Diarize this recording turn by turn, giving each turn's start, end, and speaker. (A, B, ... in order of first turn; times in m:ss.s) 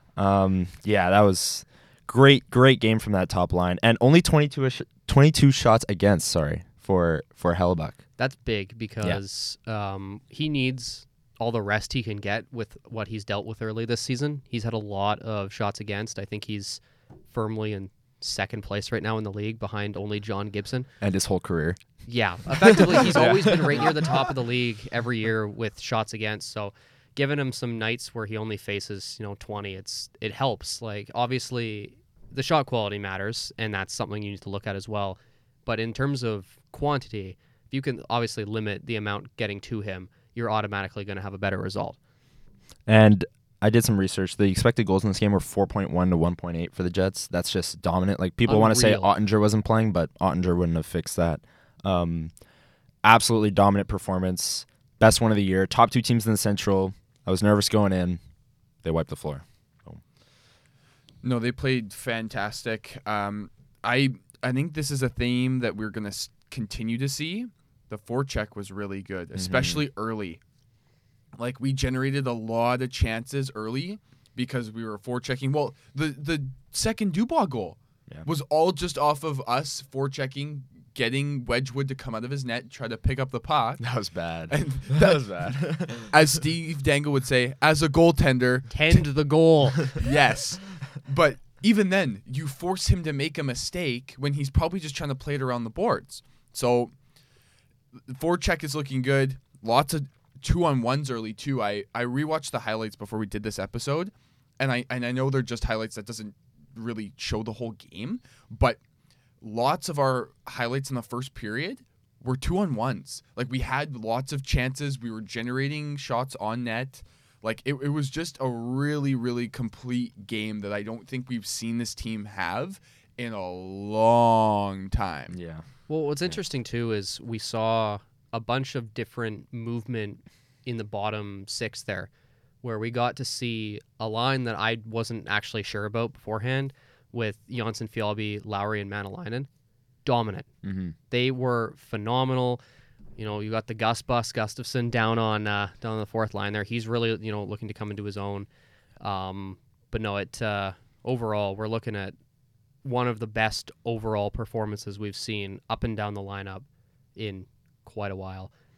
0:00.2-0:08.0 A
0:08.2-0:20.9 B
0:21.0-0:21.8 A
0:22.0-0:42.0 B
0:22.6-0:23.9 A
0:42.9-0:52.3 A
0:48.4-0:49.1 B
0:53.0-0:58.2 A
0:58.8-1:00.0 A
1:01.2-1:10.4 C
1:09.4-1:09.8 A
1:11.4-1:23.8 C
1:23.8-1:26.1 A
1:24.5-1:29.0 C
1:28.7-1:30.0 B
1:29.8-1:36.9 C
1:38.1-1:48.8 C
1:49.4-2:05.4 C
2:05.3-2:05.6 A
2:05.9-2:12.1 B
2:12.6-2:19.5 B
2:20.0-2:20.5 B
2:20.6-2:20.9 A
2:21.1-2:22.6 B
2:23.2-2:28.5 B
2:29.0-2:32.1 B
2:32.8-2:36.6 B
2:37.2-2:38.5 B